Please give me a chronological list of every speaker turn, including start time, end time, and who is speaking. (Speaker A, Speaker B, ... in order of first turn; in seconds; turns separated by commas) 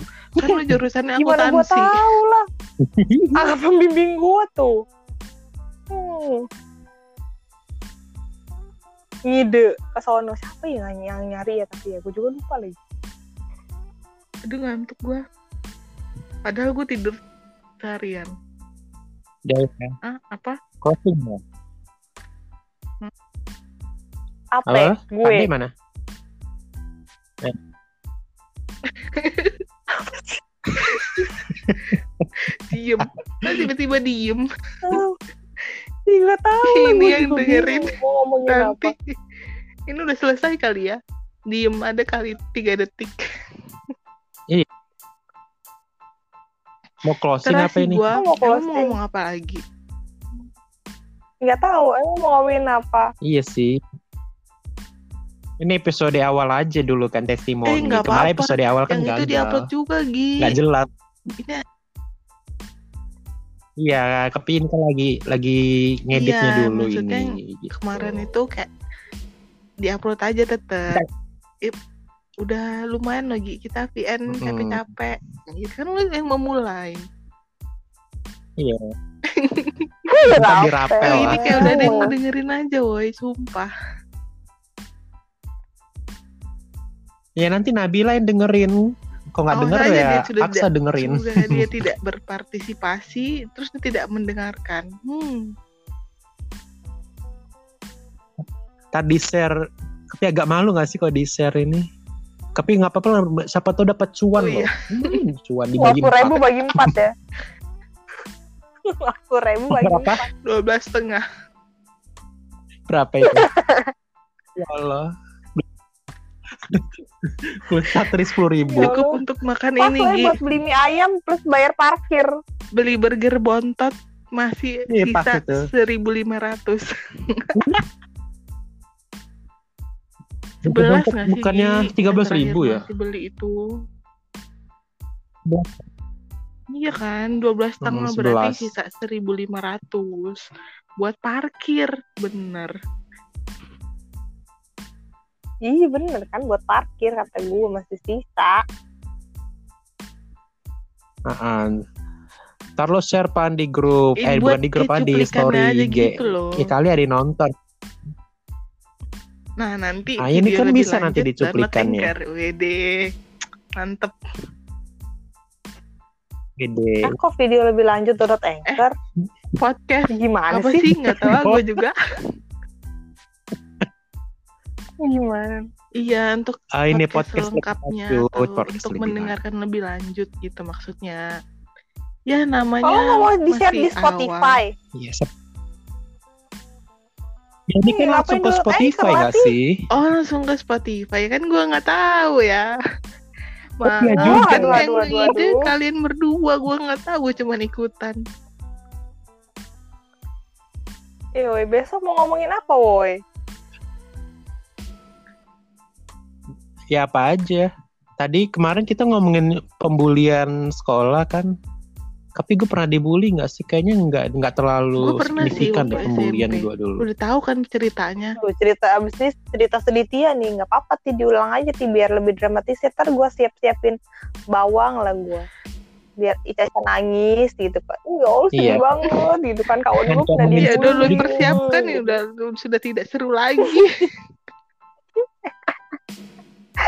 Speaker A: 0.4-2.0, Speaker B: 1.2-2.5, Speaker C: 2.8-3.4, Speaker B: 3.4-4.8, Speaker B: 5.9-6.5, Speaker B: 9.3-12.8, Speaker A: 14.5-15.2, Speaker A: 16.5-17.2, Speaker A: 17.8-18.3, Speaker C: 19.5-19.9, Speaker A: 20.1-20.6, Speaker C: 20.8-21.4, Speaker B: 24.6-25.5, Speaker C: 24.7-25.7, Speaker A: 29.1-29.6, Speaker B: 30.0-30.4, Speaker A: 30.9-31.3, Speaker C: 31.5-32.3, Speaker A: 32.5-34.5, Speaker C: 33.0-33.7, Speaker B: 34.9-35.2, Speaker B: 36.1-38.9, Speaker A: 36.6-37.9, Speaker A: 38.5-39.0, Speaker A: 39.9-41.0, Speaker A: 41.5-43.2, Speaker C: 47.0-48.0, Speaker A: 47.4-49.6, Speaker B: 48.1-49.0, Speaker B: 51.4-53.1, Speaker C: 53.3-53.8, Speaker C: 55.6-59.7, Speaker A: 57.7-60.6, Speaker C: 60.4-60.9, Speaker A: 61.3-61.6, Speaker C: 63.8-68.3, Speaker A: 66.2-68.7, Speaker A: 69.8-71.0, Speaker A: 72.5-77.0, Speaker C: 74.3-74.8, Speaker C: 78.6-78.8, Speaker A: 79.3-79.9, Speaker B: 80.1-82.1, Speaker C: 80.3-82.0, Speaker A: 81.1-83.7, Speaker C: 87.4-88.8, Speaker C: 89.3-91.8, Speaker A: 89.5-95.5, Speaker C: 98.9-99.5, Speaker C: 100.1-101.9, Speaker C: 102.6-107.0, Speaker A: 104.4-105.2, Speaker B: 105.8-107.1, Speaker B: 108.9-110.3, Speaker C: 109.7-110.2, Speaker A: 110.5-111.2, Speaker C: 112.9-113.5, Speaker B: 113.3-113.9, Speaker C: 114.6-115.6, Speaker C: 116.6-118.9, Speaker B: 118.7-119.1, Speaker A: 118.8-120.4, Speaker B: 119.8-122.3, Speaker A: 122.8-127.6, Speaker C: 124.9-125.6, Speaker C: 127.6-127.8, Speaker C: 130.7-132.8, Speaker A: 130.7-133.6, Speaker C: 135.5-135.8, Speaker A: 136.8-140.5, Speaker C: 137.8-138.7, Speaker A: 141.0-142.7, Speaker B: 145.7-148.6, Speaker C: 151.3-151.8, Speaker C: 152.8-157.5, Speaker A: 154.2-156.7, Speaker A: 159.6-162.8, Speaker C: 160.2-162.1, Speaker A: 163.8-164.1, Speaker C: 166.6-167.2, Speaker B: 167.0-168.9, Speaker A: 169.6-171.9, Speaker B: 170.1-171.3, Speaker B: 175.0-175.7, Speaker A: 176.0-181.2, Speaker C: 176.8-179.3, Speaker A: 182.3-184.6, Speaker B: 182.8-184.7, Speaker C: 184.9-185.3, Speaker C: 187.7-189.8, Speaker B: 187.9-189.5, Speaker A: 189.9-192.7, Speaker A: 193.8-198.2, Speaker C: 193.8-194.9, Speaker B: 194.1-195.7, Speaker B: 201.4-203.2, Speaker C: 206.9-211.5, Speaker C: 212.4-217.0, Speaker A: 215.0-218.4, Speaker B: 215.4-216.1, Speaker B: 218.4-224.0, Speaker B: 224.5-225.5, Speaker B: 226.2-232.2, Speaker C: 228.6-228.8, Speaker C: 230.1-231.6, Speaker A: 230.6-234.1, Speaker B: 235.2-235.7